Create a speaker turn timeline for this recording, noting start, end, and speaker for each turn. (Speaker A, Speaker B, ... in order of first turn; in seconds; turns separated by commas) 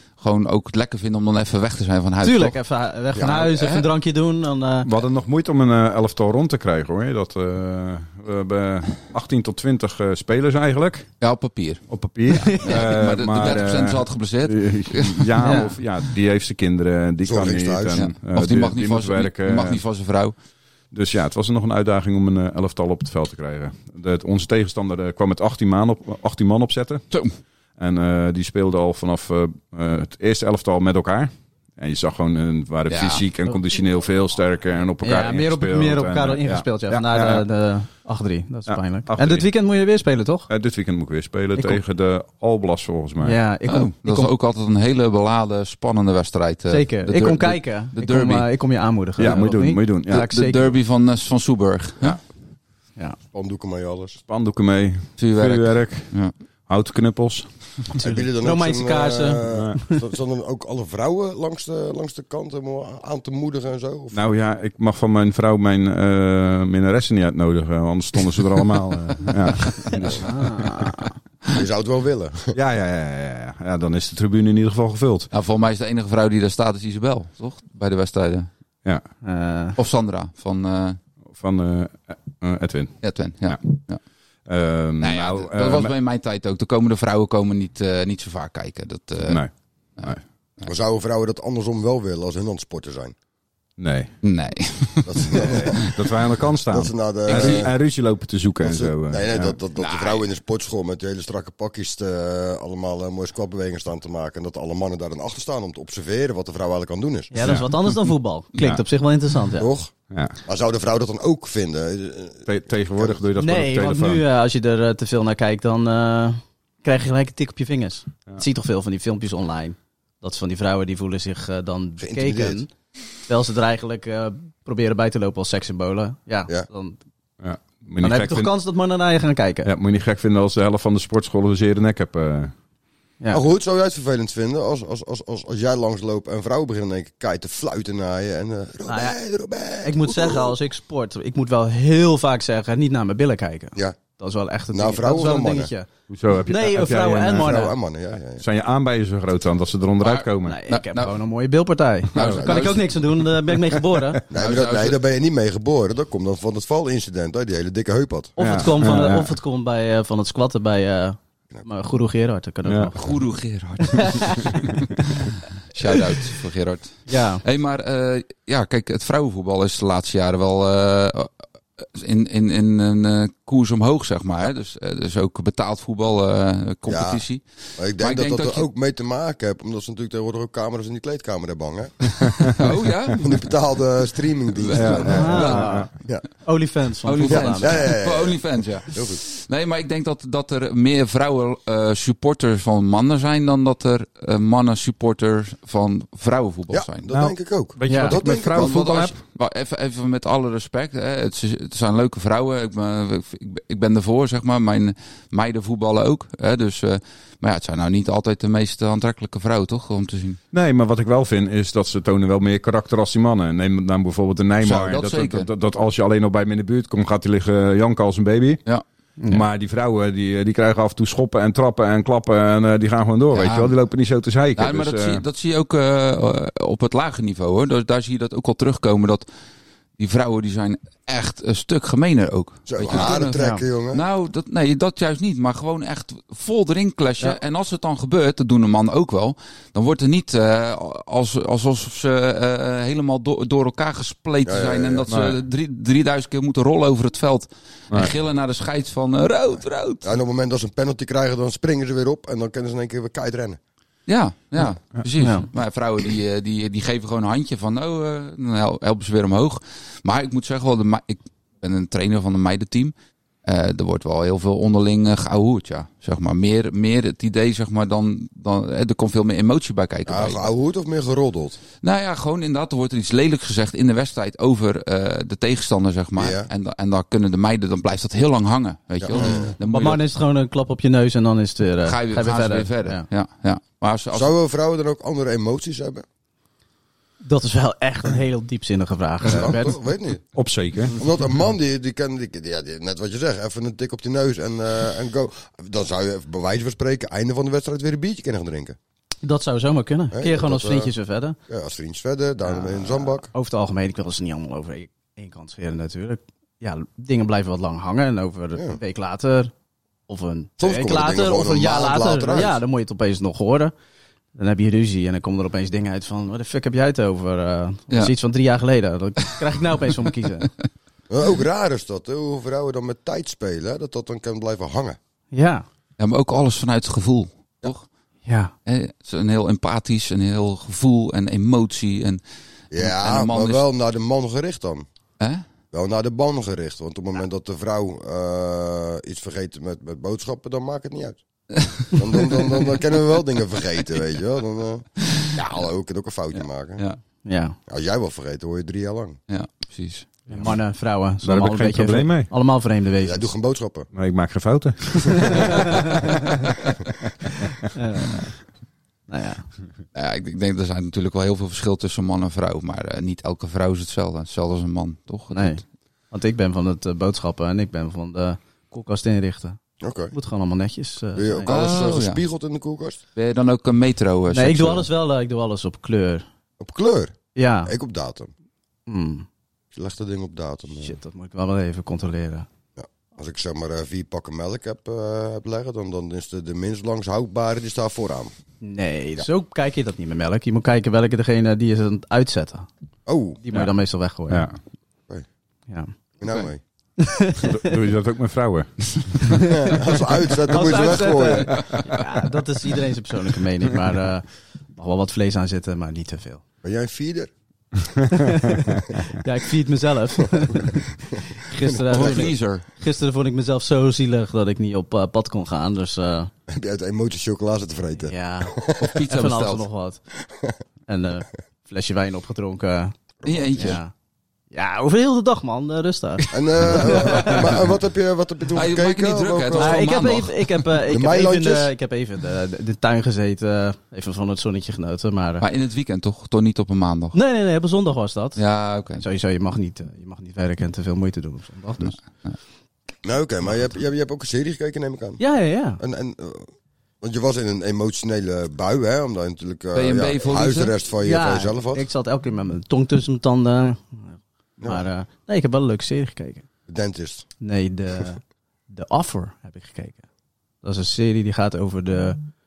Speaker A: 0.2-2.5, Speaker B: 2.2-4.9, Speaker A: 3.1-3.9, Speaker C: 4.8-11.1, Speaker A: 11.2-11.8, Speaker C: 11.9-19.8, Speaker B: 12.3-12.8, Speaker A: 12.6-15.6, Speaker B: 15.4-15.7, Speaker D: 17.2-18.1, Speaker A: 17.9-20.3, Speaker C: 20.9-27.0, Speaker C: 27.8-37.5, Speaker A: 32.9-33.2, Speaker B: 35.0-40.5, Speaker C: 38.7-39.5, Speaker C: 40.5-43.4, Speaker B: 41.5-41.8, Speaker B: 43.2-44.3, Speaker A: 43.7-48.5, Speaker B: 46.7-50.7, Speaker C: 49.2-50.2, Speaker A: 50.1-52.2, Speaker D: 53.3-54.2, Speaker C: 54.3-56.1, Speaker A: 55.2-56.3, Speaker C: 56.7-57.8, Speaker B: 57.9-59.9, Speaker D: 58.0-64.2, Speaker C: 59.5-59.8, Speaker C: 64.1-70.9, Speaker B: 70.1-71.1, Speaker D: 71.5-72.5, Speaker C: 72.5-75.3, Speaker A: 75.3-78.5, Speaker B: 79.2-79.8, Speaker A: 79.8-81.0, Speaker C: 81.3-83.7, Speaker A: 83.0-84.0, Speaker C: 84.5-85.9, Speaker A: 85.0-89.4, Speaker C: 89.2-90.2, Speaker A: 90.0-90.7, Speaker D: 90.6-93.1, Speaker C: 93.8-94.1, Speaker A: 94.2-96.1, Speaker D: 95.0-95.8, Speaker C: 95.4-99.5, Speaker D: 96.7-97.7, Speaker A: 97.3-97.7, Speaker D: 98.6-107.3, Speaker A: 99.8-100.2, Speaker B: 107.3-109.7, Speaker C: 107.4-108.8, Speaker D: 109.6-113.2, Speaker C: 110.1-110.4, Speaker C: 112.5-114.2, Speaker B: 113.4-122.7, Speaker D: 122.0-122.6, Speaker B: 123.3-127.0, Speaker C: 127.4-128.5, Speaker B: 128.0-129.7, Speaker C: 129.6-132.5, Speaker D: 133.3-140.6, Speaker B: 138.8-139.2, Speaker B: 139.8-145.9, Speaker D: 144.7-145.7, Speaker C: 146.1-147.6, Speaker B: 146.5-147.8, Speaker D: 147.3-148.4, Speaker C: 148.4-150.6, Speaker A: 150.0-151.1, Speaker B: 150.4-154.2, Speaker A: 152.1-152.9, Speaker C: 152.2-152.4, Speaker D: 152.2-152.7, Speaker D: 154.3-158.4, Speaker A: 154.3-155.0, Speaker B: 158.4-163.0, Speaker C: 158.4-159.3, Speaker C: 162.7-163.0, Speaker A: 163.0-177.4, Speaker B: 163.9-164.5, Speaker B: 167.1-167.4, Speaker D: 176.8-177.2, Speaker D: 177.8-182.5, Speaker A: 178.0-178.7, Speaker A: 182.6-183.3, Speaker D: 183.1-186.2, Speaker A: 184.6-185.7, Speaker C: 184.7-185.9, Speaker B: 185.1-185.9, Speaker B: 186.4-187.8, Speaker A: 187.1-197.1, Speaker D: 187.2-189.2, Speaker D: 196.7-198.8, Speaker C: 197.1-199.2, Speaker B: 197.9-198.2, Speaker A: 198.5-210.4, Speaker C: 210.5-218.6, Speaker A: 214.6-215.5, Speaker B: 219.2-219.4, Speaker C: 219.3-225.2, Speaker A: 223.3-223.7, Speaker A: 224.6-229.3, Speaker A: 230.0-250.2, Speaker D: 232.7-234.0, Speaker B: 233.1-233.6, Speaker D: 244.4-245.1, Speaker C: 245.1-245.4, Speaker D: 250.0-253.6, Speaker A: 254.1-262.9, Speaker B: 255.2-255.5, Speaker A: 263.4-270.5, Speaker D: 270.1-271.6, Speaker A: 271.8-280.0, Speaker D: 276.1-276.5, Speaker D: 279.0-279.5, Speaker B: 279.6-283.1, Speaker A: 281.8-284.3, Speaker D: 284.1-286.0, Speaker B: 287.2-289.8, Speaker D: 289.2-290.2, Speaker C: 290.3-291.0, Speaker D: 290.9-298.8, Speaker B: 299.2-301.4, Speaker D: 300.1-300.9, Speaker D: 301.5-303.3, Speaker B: 302.5-309.5, Speaker B: 310.1-313.7, Speaker D: 310.6-312.6, Speaker B: 314.3-320.5, Speaker D: 321.1-325.0, Speaker B: 325.3-325.6, Speaker A: 326.0-327.9, Speaker B: 328.2-328.5, Speaker A: 328.6-332.2, Speaker D: 332.7-334.9, Speaker A: 332.8-333.6, Speaker D: 335.7-341.2, Speaker A: 341.6-342.0, Speaker D: 341.9-346.8, Speaker A: 346.3-347.0, Speaker B: 347.2-347.6, Speaker D: 347.7-349.2, Speaker A: 349.3-350.1, Speaker B: 350.3-353.3, Speaker C: 350.3-350.6, Speaker C: 351.2-352.3, Speaker D: 353.0-353.9, Speaker C: 353.9-357.7, Speaker B: 355.2-355.9, Speaker B: 357.7-358.3, Speaker B: 359.1-359.4, Speaker A: 359.9-365.6, Speaker B: 365.3-369.6, Speaker D: 369.8-370.1, Speaker B: 370.1-371.7, Speaker D: 371.1-373.0, Speaker A: 371.5-372.2, Speaker A: 373.1-374.9, Speaker B: 374.3-376.2, Speaker D: 376.6-378.3, Speaker B: 377.4-377.7, Speaker B: 378.9-379.2, Speaker D: 379.7-380.9, Speaker B: 380.8-382.5, Speaker D: 382.8-388.3, Speaker B: 388.6-392.7, Speaker D: 393.1-393.4, Speaker B: 393.4-394.4, Speaker C: 394.3-394.6, Speaker D: 396.2-396.6, Speaker B: 397.0-397.7, Speaker C: 397.4-399.4, Speaker D: 399.6-401.8, Speaker B: 400.5-406.4, Speaker D: 406.6-407.3, Speaker B: 408.1-416.3, Speaker D: 410.7-412.3, Speaker A: 411.9-412.6, Speaker D: 416.5-419.0, Speaker B: 418.1-420.0, Speaker A: 418.8-419.7, Speaker B: 420.9-423.0, Speaker D: 423.2-423.8, Speaker A: 423.2-423.8, Speaker B: 423.5-423.9, Speaker B: 424.5-427.5, Speaker D: 426.3-429.9, Speaker A: 428.5-430.4, Speaker B: 429.6-435.4, Speaker D: 430.9-431.7, Speaker A: 435.4-437.2, Speaker B: 437.1-438.4, Speaker A: 438.4-439.0, Speaker B: 438.9-442.0, Speaker A: 441.8-442.4, Speaker D: 443.0-445.2, Speaker B: 445.2-445.8, Speaker D: 445.8-446.5, Speaker D: 447.0-451.9, Speaker A: 449.7-450.8, Speaker B: 451.0-456.4, Speaker D: 456.7-457.3, Speaker B: 457.4-460.0, Speaker B: 460.6-462.2